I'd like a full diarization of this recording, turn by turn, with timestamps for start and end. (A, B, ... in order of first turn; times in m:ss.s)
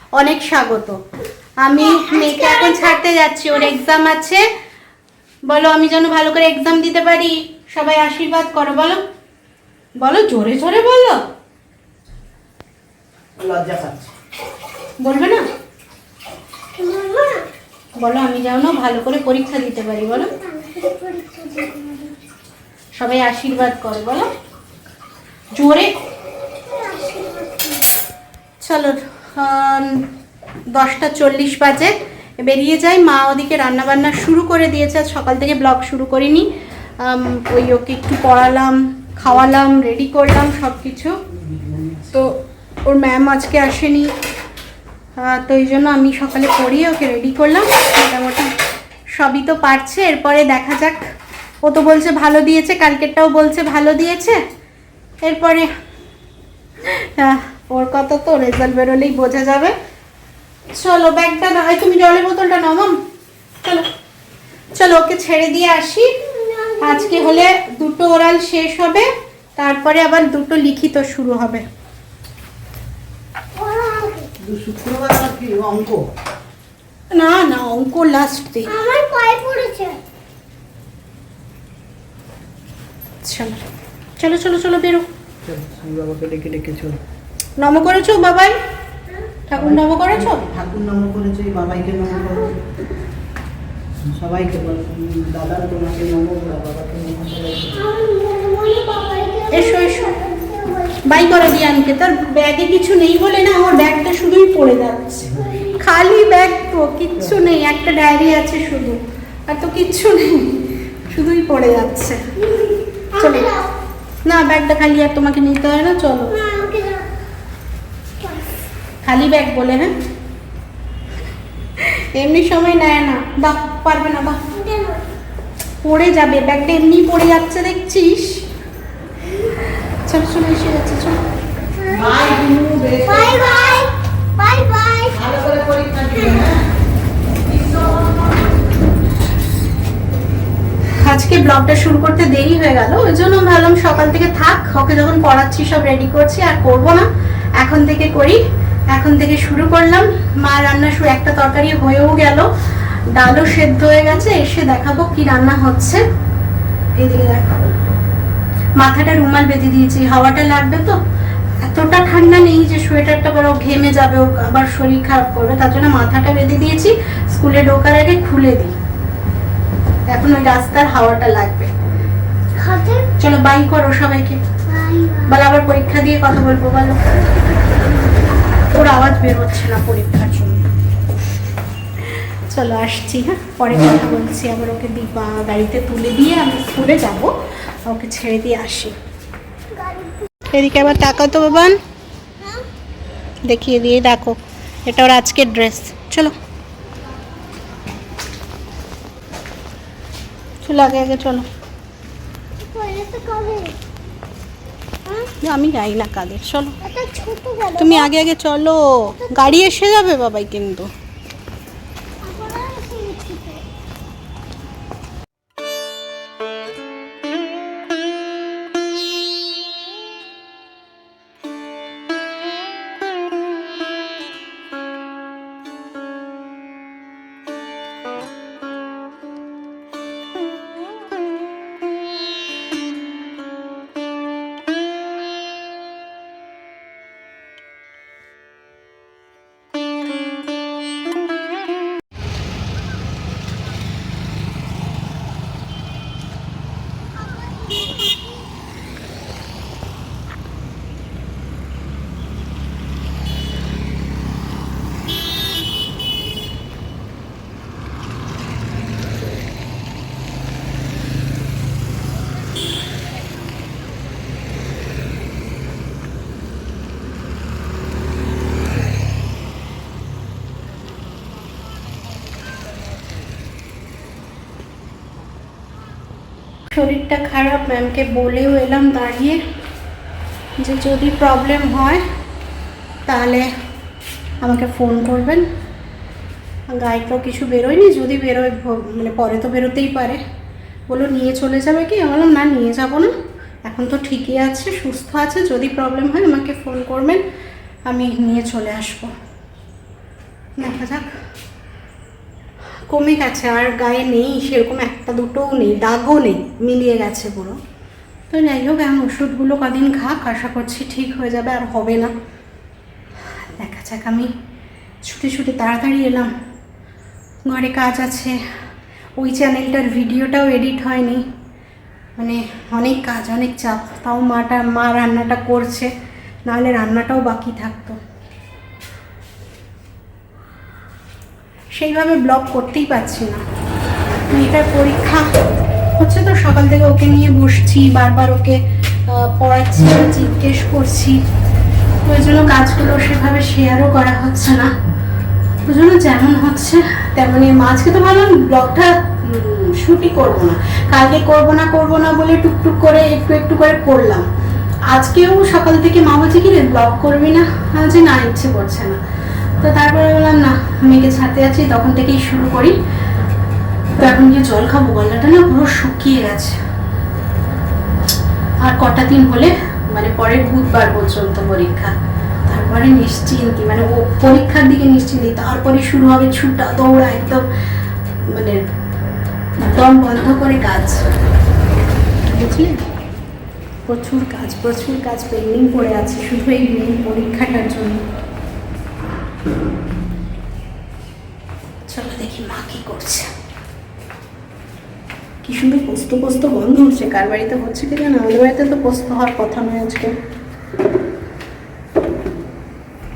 0:00.2-0:01.0 A
0:01.6-0:04.5 A
0:01.8-0:03.0 B
0:05.5-0:09.0 A
0:10.0-0:11.2 A
0:13.4-0:14.1 C
0:15.0-0:15.4 A
0:16.8-0:17.5 B
0:18.0-0:20.3 A
0:20.1-0:22.2 B
0:23.0-0:24.3 A
0:25.6-0:26.0 A
0:26.7-0:27.9 B
0:28.6-0:30.1 A
0:30.7-0:36.5 A
0:37.0-0:41.2 A
0:41.5-0:42.1 C
0:42.1-0:44.1 A
0:45.2-0:48.5 A
0:49.2-0:51.0 A
0:51.6-0:54.4 A
0:55.2-0:55.7 A
0:56.8-0:59.8 A
1:00.8-1:03.0 A
1:04.8-1:06.2 A
1:06.3-1:07.4 B
1:06.8-1:11.6 A
1:13.6-1:14.3 B
1:14.4-1:16.0 C
1:17.2-1:18.7 A
1:18.7-1:20.0 B
1:23.2-1:23.6 A
1:24.2-1:25.1 A
1:25.4-1:27.0 C
1:27.6-1:28.6 A
1:29.5-1:30.5 A
1:29.6-1:32.5 C
1:34.1-1:37.9 C
1:37.7-1:41.1 B
1:39.5-1:40.1 A
1:41.0-1:52.2 A
1:53.1-1:53.7 B
1:53.2-1:53.5 A
1:54.2-1:56.4 A
1:56.3-1:57.1 B
1:59.0-1:59.9 A
2:01.8-2:04.4 A
2:04.5-2:05.0 B
2:05.8-2:08.5 A
2:10.0-2:11.2 A
2:11.8-2:12.2 B
2:11.9-2:13.6 C
2:13.0-2:15.2 B
2:15.1-2:16.6 C
2:17.5-2:18.1 C
2:21.0-2:32.5 A
2:33.1-2:36.0 A
2:37.0-2:37.6 A
2:38.8-2:41.0 A
2:41.6-2:48.7 A
2:50.1-2:51.7 A
2:52.6-2:53.1 B
2:53.2-2:54.4 A
2:54.7-2:55.3 B
2:55.3-2:57.1 A
2:58.7-3:00.7 A
3:02.5-3:07.3 A
3:07.9-3:09.0 A
3:09.7-3:11.7 B
3:10.5-3:11.8 A
3:12.4-3:12.6 B
3:13.5-3:16.3 A
3:20.6-3:21.5 A
3:22.6-3:23.8 B
3:25.4-3:26.7 A
3:26.8-3:28.1 B
3:27.8-3:30.9 A
3:32.2-3:33.6 B
4:07.7-4:08.1 B
4:36.7-4:39.4 A
4:40.6-4:42.0 A
4:43.1-4:43.5 A
4:44.4-4:45.5 A
4:46.7-4:50.2 A
4:50.9-4:53.1 A
4:53.6-4:57.2 A
4:57.9-4:59.1 A
5:00.6-5:01.1 A
5:02.9-5:07.6 A
5:08.3-5:12.1 A
5:13.6-5:14.3 A
5:15.0-5:16.3 A
5:17.4-5:18.4 A
5:19.2-5:21.2 A
5:22.2-5:25.9 A
5:26.4-5:28.0 A
5:31.8-5:33.4 A
5:34.3-5:35.3 A
5:36.0-5:41.2 A
5:42.0-5:44.7 A
5:45.6-5:54.3 A
5:54.9-5:59.0 A
5:59.6-6:02.8 A
6:04.0-6:06.6 A
6:08.6-6:11.9 A
6:12.5-6:17.5 A
6:18.2-6:18.6 A
6:19.6-6:21.0 A
6:22.3-6:22.8 A
6:23.9-6:28.0 A
6:31.9-6:33.3 A
6:35.4-6:40.2 A